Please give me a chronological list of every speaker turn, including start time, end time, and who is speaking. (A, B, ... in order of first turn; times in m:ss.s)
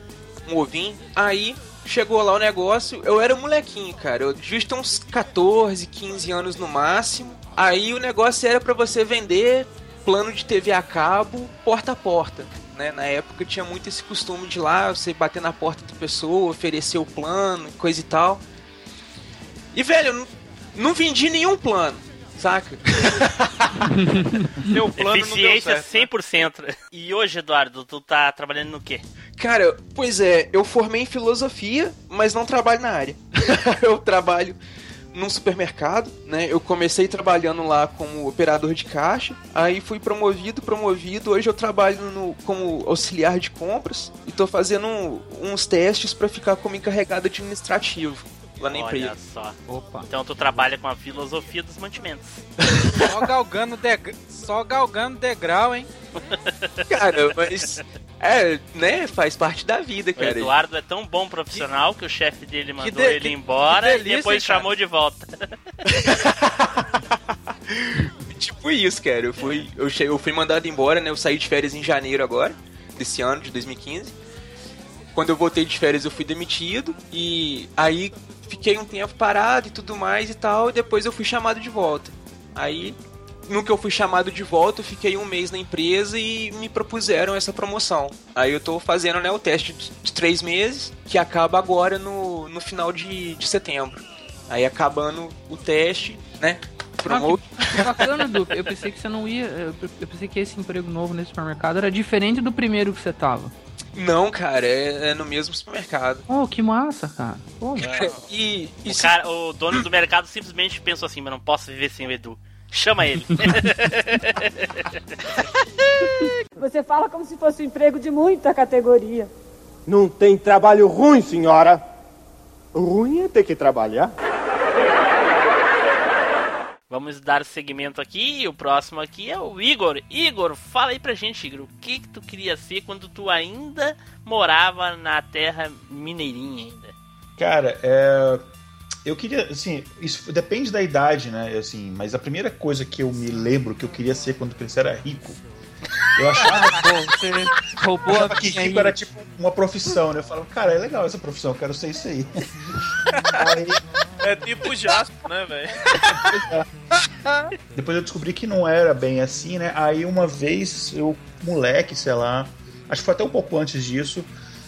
0:00.5-0:18.4 A
0:19.7-0:23.3 A
0:24.0-0:24.4 B
0:24.6-0:26.1 C
0:25.0-0:29.0 D
0:29.4-0:34.6 A
0:35.1-0:49.2 A
0:48.7-0:52.4 D
0:49.7-0:50.1 B
0:52.6-0:53.1 A
0:53.0-0:55.9 E
0:56.3-0:57.8 D
0:56.9-1:00.6 A
1:00.2-1:05.3 D
1:02.8-1:04.7 E
1:05.9-1:06.7 A
1:07.7-1:14.2 A
1:15.1-1:38.1 A
1:37.0-1:43.5 B
1:43.9-1:46.3 A
1:46.3-1:48.0 B
1:47.8-1:48.1 D
1:48.0-1:49.2 A
1:48.8-1:55.0 D
1:56.6-1:59.3 F
1:59.9-2:01.8 G
2:02.8-2:04.1 G
2:06.9-2:16.9 D
2:17.4-2:18.4 H
2:19.0-2:25.4 H
2:26.2-2:26.9 H
2:26.5-2:29.0 B
2:28.1-2:32.5 H
2:33.3-2:33.8 H
2:34.2-2:35.8 C
2:36.1-2:36.7 H
2:37.8-2:44.3 H